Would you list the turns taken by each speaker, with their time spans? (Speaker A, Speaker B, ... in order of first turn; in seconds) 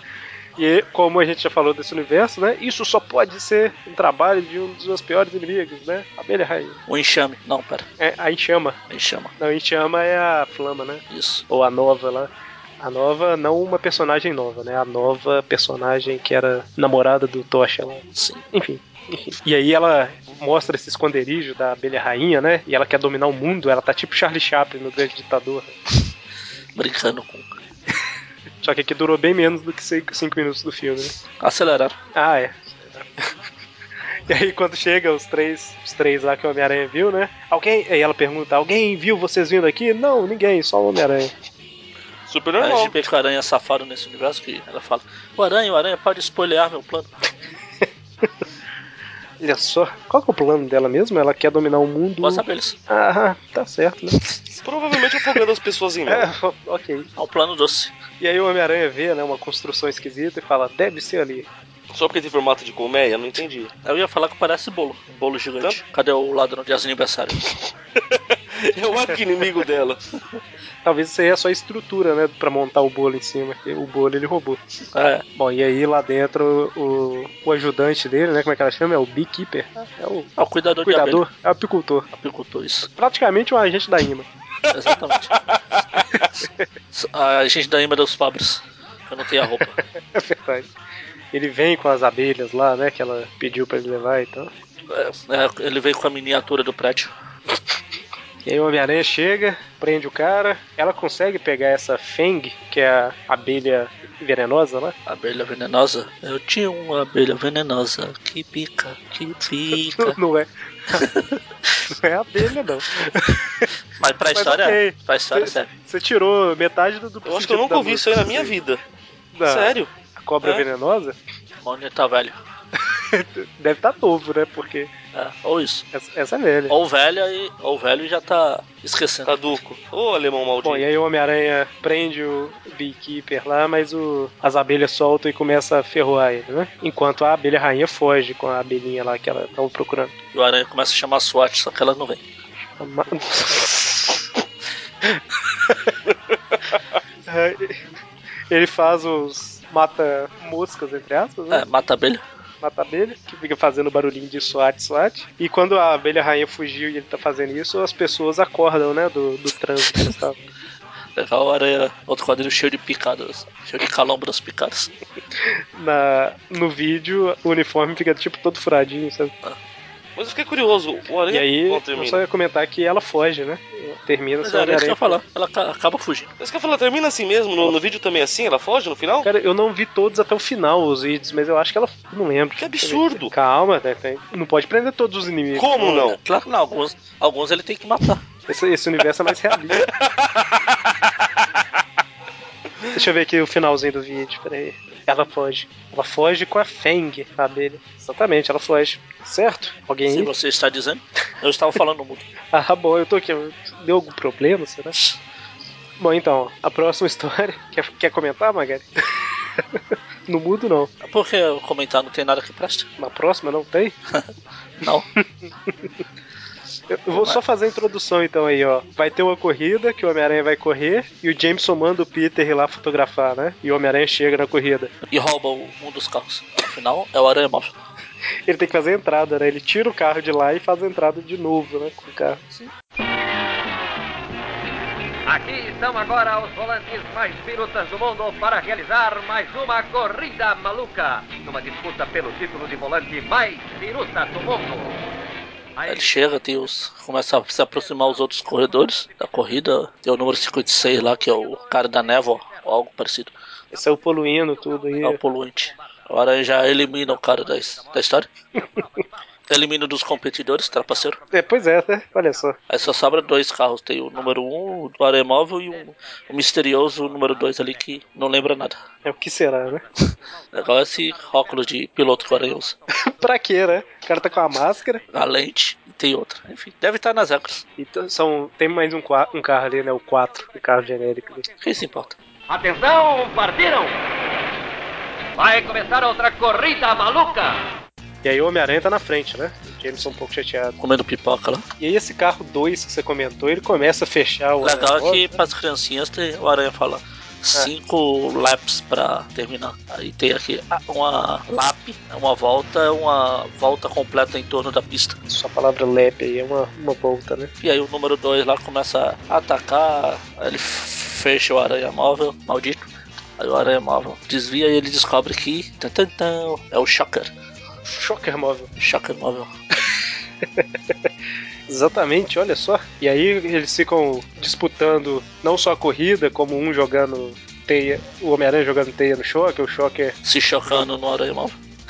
Speaker A: 0.6-6.8, 8.0-8.8, 9.4-25.7, 28.6-31.1, 32.1-33.2, 34.3-41.3, 49.4-54.2, 56.1-57.1, 58.2-61.5, 70.8-74.6, 75.3-80.3, 80.8-82.1, 82.9-84.3, 90.1-90.7, 91.3-94.5, 98.5-104.9, 109.9-111.0, 111.9-113.7, 114.3-118.6, 119.3-121.2, 123.1-124.9, 125.9-126.7, 130.6-140.1, 142.8-143.8, 145.0-145.9, 147.3-147.8, 148.5-151.6, 152.6-160.4, 165.7-169.3, 171.3-175.2, 179.2-186.1, 188.5-189.8, 192.9-200.3, 202.5-204.9, 206.0-208.9, 209.7-210.9, 213.0-213.9, 216.9-224.9, 228.5-232.4, 253.7-255.2, 261.3-262.6, 269.0-269.8, 273.0-275.0, 277.8-281.4, 288.2-290.7, 291.8-295.4, 305.3-307.5, 317.9-318.7, 321.7-330.1
Speaker B: 6.9-7.9, 8.9-9.3, 11.1-11.4, 18.1-18.4, 26.8-27.5, 31.4-31.9, 42.6-47.1, 52.2-52.8, 57.2-57.9, 63.8-67.5, 74.9-75.2, 80.4-81.2, 82.1-82.9, 84.7-85.4, 86.3-89.8, 94.9-97.1, 105.1-110.2, 110.9-111.8, 114.0-115.7, 121.6-122.3, 125.1-125.8, 126.7-129.4, 140.3-142.2, 151.5-152.2, 161.2-164.9, 174.4-176.3, 186.1-188.2, 200.1-202.3, 211.0-212.9, 217.1-217.4, 225.1-227.7, 245.8-253.3, 255.0-258.3, 259.5-261.2, 262.7-268.8, 270.5-272.8, 275.1-277.6, 281.6-282.1, 290.8-291.6, 294.6-305.1, 307.6-312.8, 313.4-317.3, 318.8-319.5, 330.2-331.6
Speaker C: 42.3-43.0, 54.6-56.3, 61.9-63.7, 68.0-70.0, 117.2-118.8, 119.5-119.9, 129.2-130.8, 170.2-172.2, 176.4-179.3, 182.6-183.3, 185.5-186.2
Speaker D: 235.3-245.0, 245.8-246.2, 282.5-284.0, 285.4-287.6